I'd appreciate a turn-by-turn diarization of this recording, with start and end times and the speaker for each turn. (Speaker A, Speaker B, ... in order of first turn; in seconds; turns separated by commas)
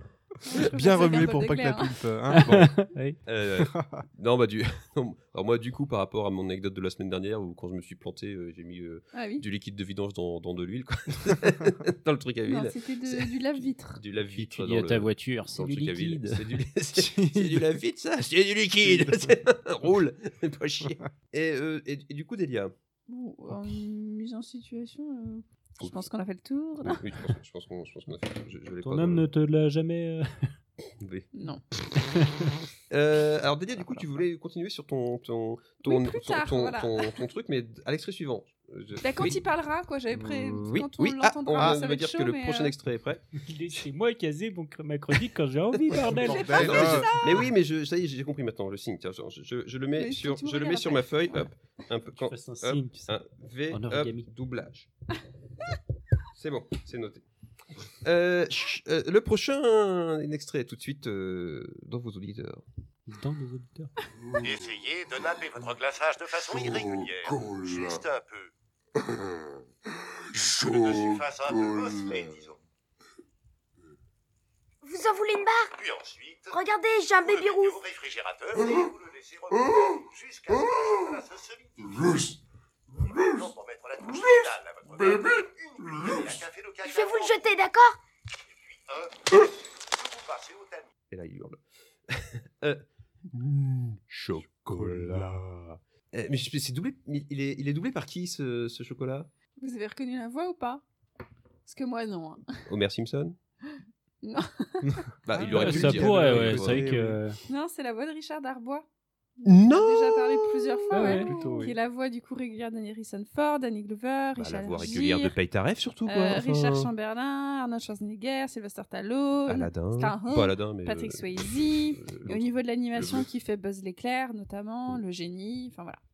Speaker A: 0.4-1.9, Speaker B: 0.6-2.7, Speaker C: 2.4-3.2, Speaker D: 3.3-22.7, Speaker B: 3.6-4.0, Speaker A: 9.1-9.4, Speaker A: 12.5-14.0, Speaker C: 14.3-16.4, Speaker C: 17.0-17.3, Speaker B: 18.9-19.3, Speaker A: 23.1-27.0, Speaker D: 26.8-29.3, Speaker C: 28.8-30.5, Speaker D: 31.0-31.3, Speaker A: 31.3-31.6, Speaker D: 32.9-39.4, Speaker A: 35.9-37.2, Speaker A: 39.0-42.7, Speaker D: 40.5-43.3, Speaker C: 43.4-47.0, Speaker D: 45.9-54.9, Speaker B: 45.9-47.4, Speaker A: 46.5-47.2, Speaker A: 50.0-51.1, Speaker C: 52.2-53.1, Speaker C: 53.7-54.3, Speaker D: 56.4-57.2, Speaker D: 58.0-62.6, Speaker C: 63.1-64.0, Speaker E: 64.4-68.5, Speaker E: 70.4-72.6, Speaker F: 74.8-75.7, Speaker E: 75.7-76.6, Speaker F: 76.5-77.8, Speaker E: 77.2-82.3, Speaker E: 83.0-87.4, Speaker F: 86.8-88.0, Speaker E: 88.9-90.9, Speaker D: 91.1-99.3, Speaker B: 94.7-95.3, Speaker A: 99.6-100.8, Speaker A: 101.7-102.4, Speaker D: 102.7-103.4, Speaker A: 103.7-105.0, Speaker B: 104.8-107.2, Speaker D: 105.2-106.9, Speaker C: 105.4-107.4, Speaker A: 107.5-108.9, Speaker A: 109.4-115.3, Speaker D: 109.4-111.1, Speaker C: 110.9-111.3, Speaker B: 111.1-111.7, Speaker D: 114.4-116.9, Speaker A: 116.1-126.0, Speaker D: 119.5-123.2